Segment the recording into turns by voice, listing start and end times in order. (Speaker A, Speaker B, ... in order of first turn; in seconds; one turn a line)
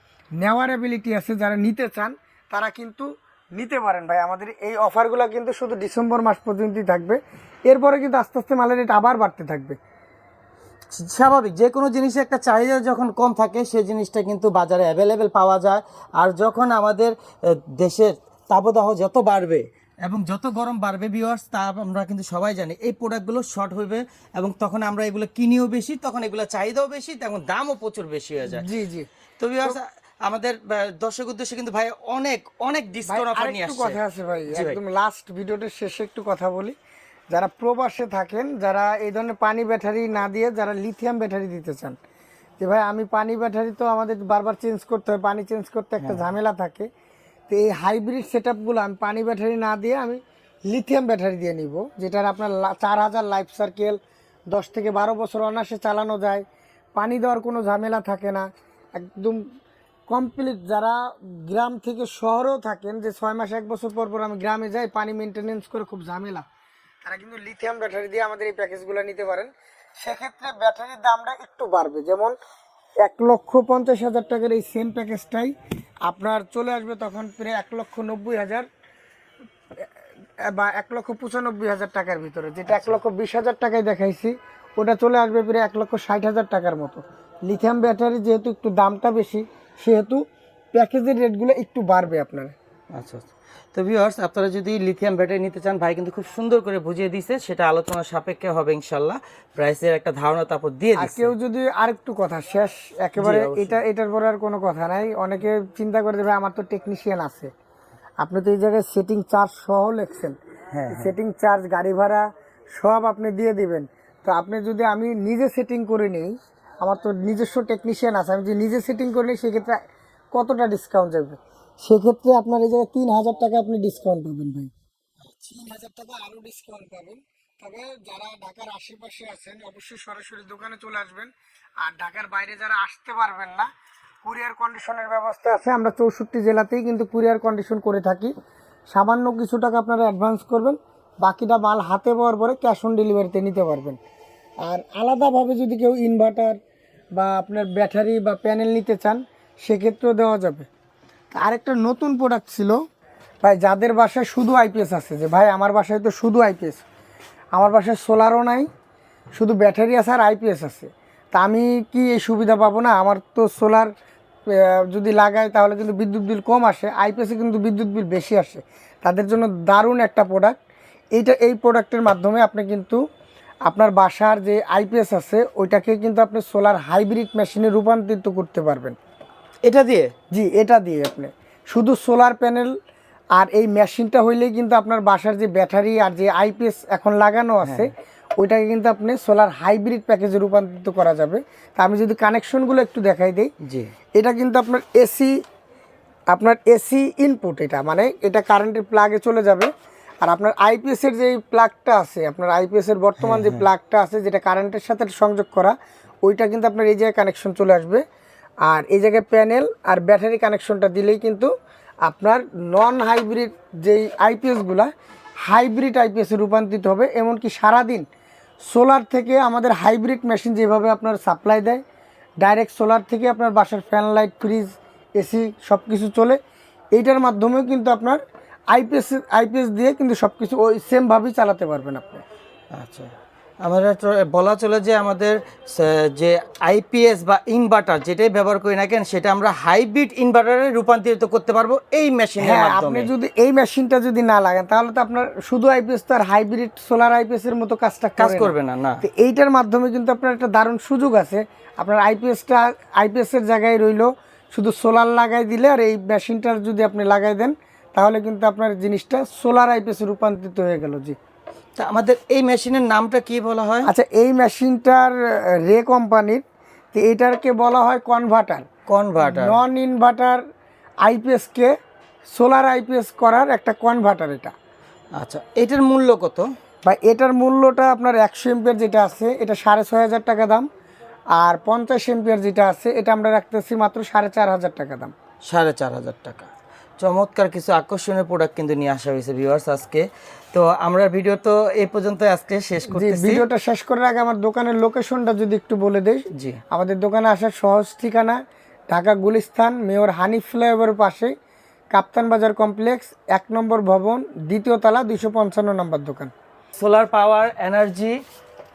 Speaker A: 0.4-9.8
Speaker B: 11.0-28.7
Speaker A: 28.5-29.1
Speaker B: 29.4-34.0
Speaker A: 33.1-36.8
Speaker B: 34.5-34.8
Speaker A: 37.3-42.0
Speaker A: 42.6-46.9
Speaker B: 46.0-46.4
Speaker A: 47.5-54.0
Speaker A: 54.5-56.4
Speaker A: 57.0-58.5
Speaker A: 59.0-59.4
Speaker A: 60.1-66.5
Speaker A: 67.0-72.4
Speaker A: 73.0-75.5
Speaker A: 76.1-78.7
Speaker A: 80.5-92.5
Speaker B: 82.7-83.0
Speaker B: 92.9-101.3
Speaker A: 101.0-107.5
Speaker B: 103.2-103.8
Speaker A: 108.2-110.4
Speaker B: 110.7-111.1
Speaker A: 110.9-112.2
Speaker A: 112.8-119.8
Speaker A: 120.3-124.7
Speaker A: 125.4-131.3
Speaker A: 131.8-133.7
Speaker A: 134.2-138.3
Speaker A: 138.9-144.0
Speaker A: 144.7-146.6
Speaker A: 147.2-150.7
Speaker A: 151.3-152.8
Speaker A: 153.4-156.8
Speaker A: 157.6-158.7
Speaker A: 159.3-163.9
Speaker A: 164.5-170.6
Speaker A: 171.2-173.0
Speaker A: 173.7-179.0
Speaker B: 179.6-180.1
Speaker A: 180.3-182.7
Speaker A: 183.3-193.5
Speaker B: 187.6-187.9
Speaker B: 193.6-193.9
Speaker A: 194.2-195.3
Speaker A: 196.3-199.7
Speaker A: 200.2-208.0
Speaker B: 203.2-203.7
Speaker A: 208.7-211.5
Speaker A: 212.1-214.9
Speaker A: 215.4-218.1
Speaker A: 218.7-221.8
Speaker A: 222.4-226.4
Speaker A: 226.9-228.2
Speaker A: 228.7-232.2
Speaker B: 232.7-233.1
Speaker B: 233.6-243.1
Speaker A: 242.4-261.2
Speaker B: 248.2-249.0
Speaker B: 261.8-263.9
Speaker A: 263.8-266.4
Speaker A: 266.9-268.6
Speaker B: 268.9-269.6
Speaker A: 269.2-270.4
Speaker A: 271.0-271.7
Speaker A: 272.3-274.5
Speaker B: 275.2-276.5
Speaker A: 276.9-280.7
Speaker A: 281.4-285.1
Speaker B: 285.5-293.5
Speaker A: 292.9-298.4
Speaker B: 296.3-296.6
Speaker A: 298.9-301.3
Speaker A: 301.9-306.3
Speaker B: 306.8-308.2